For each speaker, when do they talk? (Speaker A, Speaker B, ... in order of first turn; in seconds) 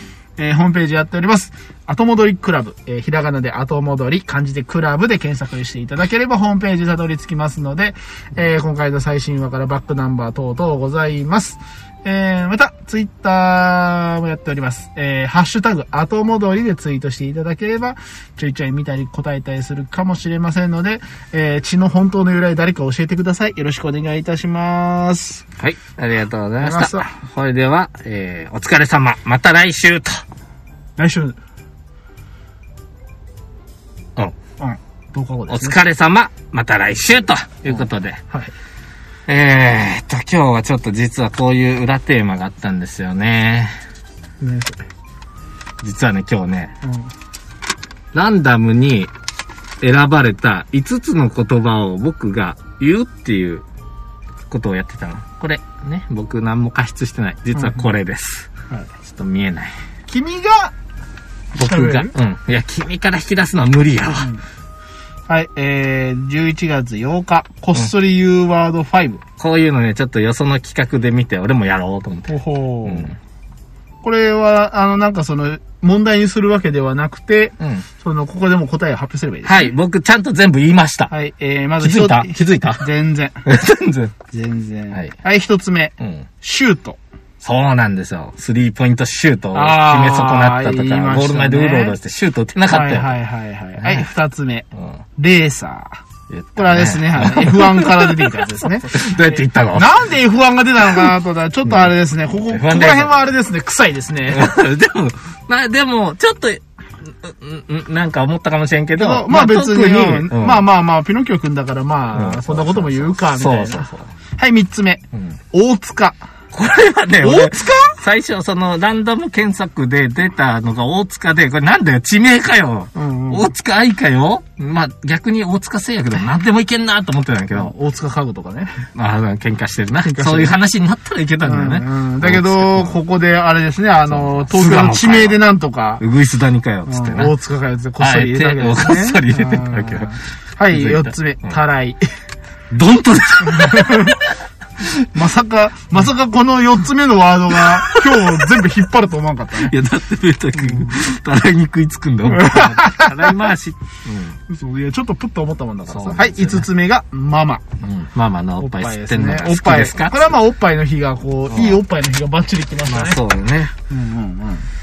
Speaker A: 0.4-25.4, 26.6-27.1, 31.0-31.4, 34.6-35.8, 37.7-38.5, 44.4-44.8, 46.8-47.1, 57.5-57.9, 60.1-60.7, 61.5-62.1, 64.2-64.4, 65.3-69.2, 72.3-73.1, 74.0-79.7, 81.1-83.4, 84.3-87.0, 89.5-92.0, 92.7-96.0, 96.5-104.5, 108.9-116.2, 117.2-118.0, 122.9-123.5, 127.5-128.8, 130.0-130.6, 131.4-136.0, 136.9-142.0, 143.4-144.2, 145.1-149.7, 150.5-151.0, 152.2-153.5, 154.5-157.6, 158.6-163.2, 163.9-164.7
Speaker B: 25.6-30.2, 35.5-38.2, 39.3-43.8, 45.8-46.7, 48.1-49.1, 49.8-53.6, 54.5-58.5, 59.0-59.7, 61.5-64.3, 69.4-73.2, 77.6-77.8, 79.4-81.1, 81.8-82.8, 83.4-84.2, 86.0-86.3, 87.4-93.2, 93.8-94.0, 96.3-100.0, 102.5-103.3, 104.3-110.7, 112.1-114.1, 116.5-127.7, 128.9-133.0, 134.1-135.4, 136.0-137.3, 138.0-141.6, 142.7-145.0, 147.6-148.6, 149.6-154.4, 155.9-156.7, 157.8-160.3, 161.5-161.8, 162.8-163.7